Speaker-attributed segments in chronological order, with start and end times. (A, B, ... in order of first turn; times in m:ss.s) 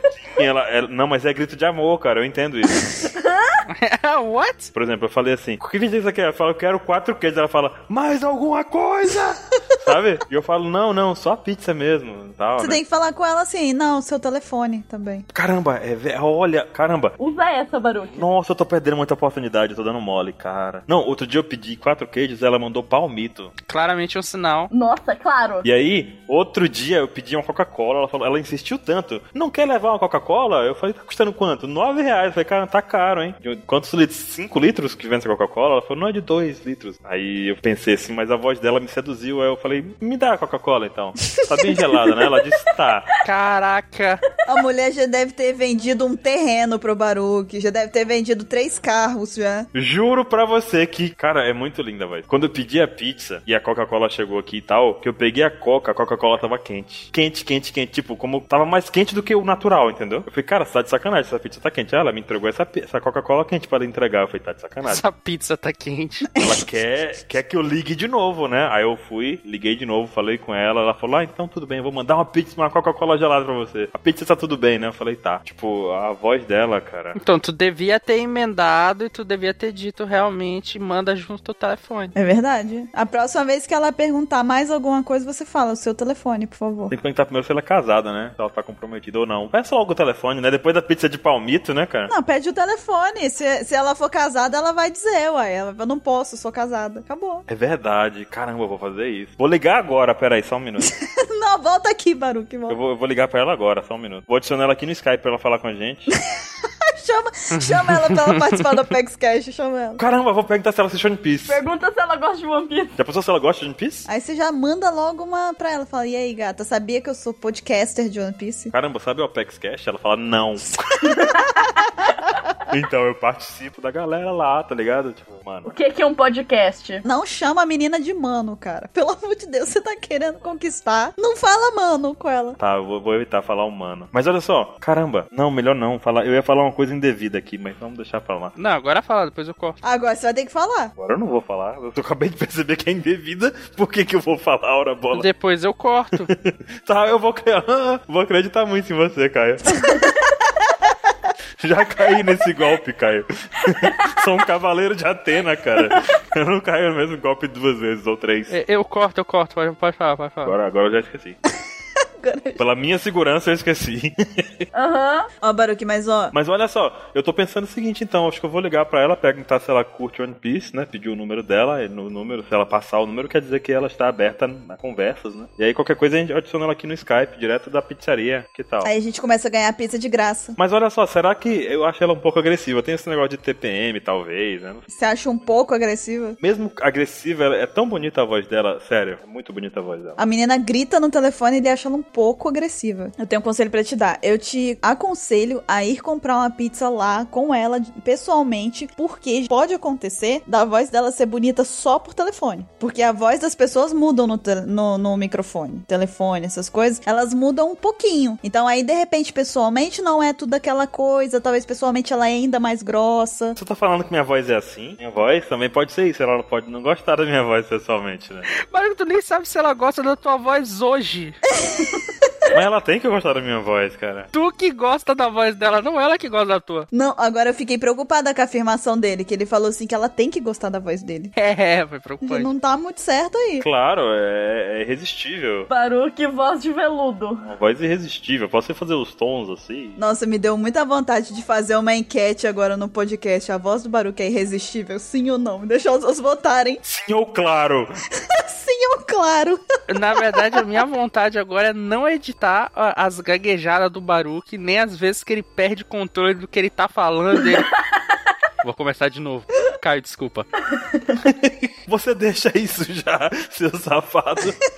0:00.2-0:02.9 A
0:03.0-0:03.6 B
0:03.7-0:04.7 C
0:04.8-0:12.8 A
0:12.6-0:15.3 D
0:15.3-0:17.2 A
0:17.2-0:18.2 B
0:18.1-0:23.5 A
0:23.7-0:24.7 C
0:24.7-0:25.7 B
0:25.6-0:43.1 A
0:43.2-0:44.2 C
0:44.5-0:49.7 D
0:49.7-1:05.0 A
1:04.9-1:06.5 C
1:06.4-1:17.2 A
1:17.2-1:22.1 C
1:22.2-1:27.0 D
1:26.9-1:32.1 A
1:32.1-1:37.5 D
1:37.5-1:40.9 A
1:41.0-1:42.8 D
1:42.7-1:46.1 A
1:47.0-1:50.0 D
1:47.5-1:48.7 C
1:50.0-1:51.6 A
1:51.5-1:53.0 B
1:53.0-1:54.1 A
1:54.1-1:58.7 D
1:58.7-2:01.2 A
2:02.7-2:05.7 A
2:05.7-2:07.0 B
2:07.0-2:12.6 D
2:12.6-2:18.5 A
2:18.6-2:19.8 C
2:19.8-2:20.9 D
2:21.0-2:25.3 A
2:25.1-2:26.3 C
2:26.2-2:29.9 A
2:31.6-2:38.6 A
2:38.5-2:40.6 C
2:40.4-2:41.4 A
2:42.2-2:42.6 D
2:42.6-2:44.7 A
2:44.7-2:45.3 B
2:45.4-2:46.3 D
2:46.3-2:58.9 A
2:58.8-3:00.6 D
3:00.6-3:05.2 A
3:04.9-3:06.4 D
3:06.4-3:10.2 A
3:10.2-3:33.6 D
3:33.6-3:38.5 A
3:38.7-3:41.4 C
3:42.5-3:44.3 A
3:44.3-3:46.9 C
3:46.9-3:51.3 D
3:51.4-3:52.5 C
3:52.2-3:53.7 D
3:53.6-3:55.7 A
3:55.7-3:57.5 B
3:57.4-4:00.0 A
4:00.0-4:06.8 D
4:06.8-4:07.9 A
4:08.3-4:09.6 D
4:09.9-4:17.7 C
4:18.6-4:20.5 C
4:21.2-4:24.6 A